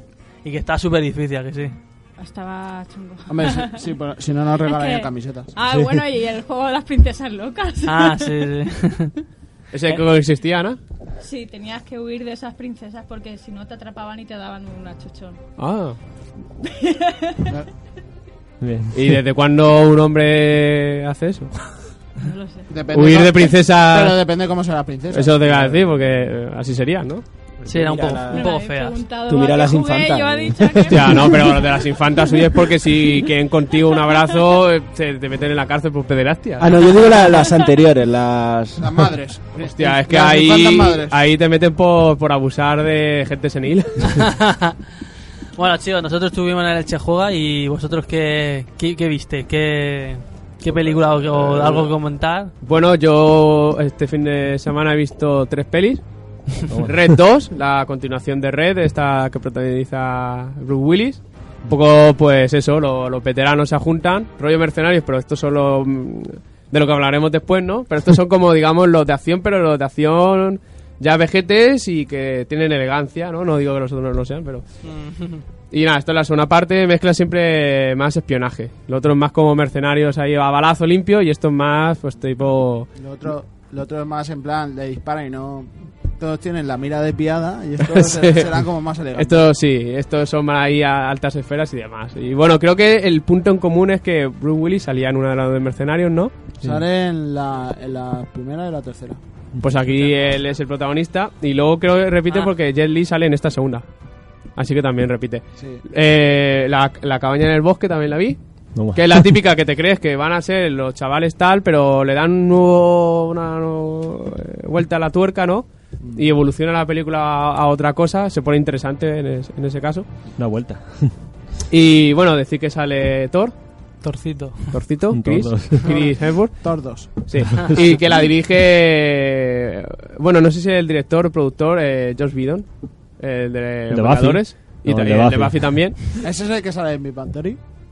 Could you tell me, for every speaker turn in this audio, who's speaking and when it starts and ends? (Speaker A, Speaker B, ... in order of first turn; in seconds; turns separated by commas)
Speaker A: 0.4-1.7, Speaker B: 2.2-3.8, Speaker C: 3.3-5.5, Speaker B: 4.6-8.4, Speaker A: 7.9-9.1, Speaker D: 9.7-10.8, Speaker B: 11.2-15.4, Speaker D: 15.6-16.0, Speaker B: 16.7-17.5, Speaker E: 18.6-18.9, Speaker D: 18.9-21.8, Speaker B: 22.2-22.7, Speaker C: 22.7-25.4, Speaker D: 22.9-24.2, Speaker D: 25.1-27.2, Speaker F: 25.4-25.9, Speaker F: 27.6-28.5, Speaker A: 27.6-29.0, Speaker B: 28.3-32.5, Speaker F: 29.2-31.4, Speaker D: 30.9-36.7, Speaker F: 36.6-39.1, Speaker B: 36.9-37.6, Speaker C: 38.8-41.1, Speaker D: 39.6-44.3, Speaker A: 44.1-44.8, Speaker A: 45.6-52.5, Speaker D: 50.7-51.9, Speaker D: 52.6-74.6, Speaker E: 56.7-57.0, Speaker A: 74.8-75.4, Speaker D: 75.7-82.9, Speaker C: 83.0-89.5, Speaker D: 87.9-88.6, Speaker D: 89.1-96.3, Speaker C: 96.6-99.2, Speaker D: 99.6-103.8, Speaker D: 104.5-120.2, Speaker E: 108.7-109.1, Speaker E: 120.4-121.2, Speaker D: 121.7-123.5, Speaker A: 124.0-124.8, Speaker D: 124.7-136.0, Speaker E: 125.1-125.9, Speaker C: 125.8-127.7, Speaker E: 133.9-135.9, Speaker C: 136.2-137.6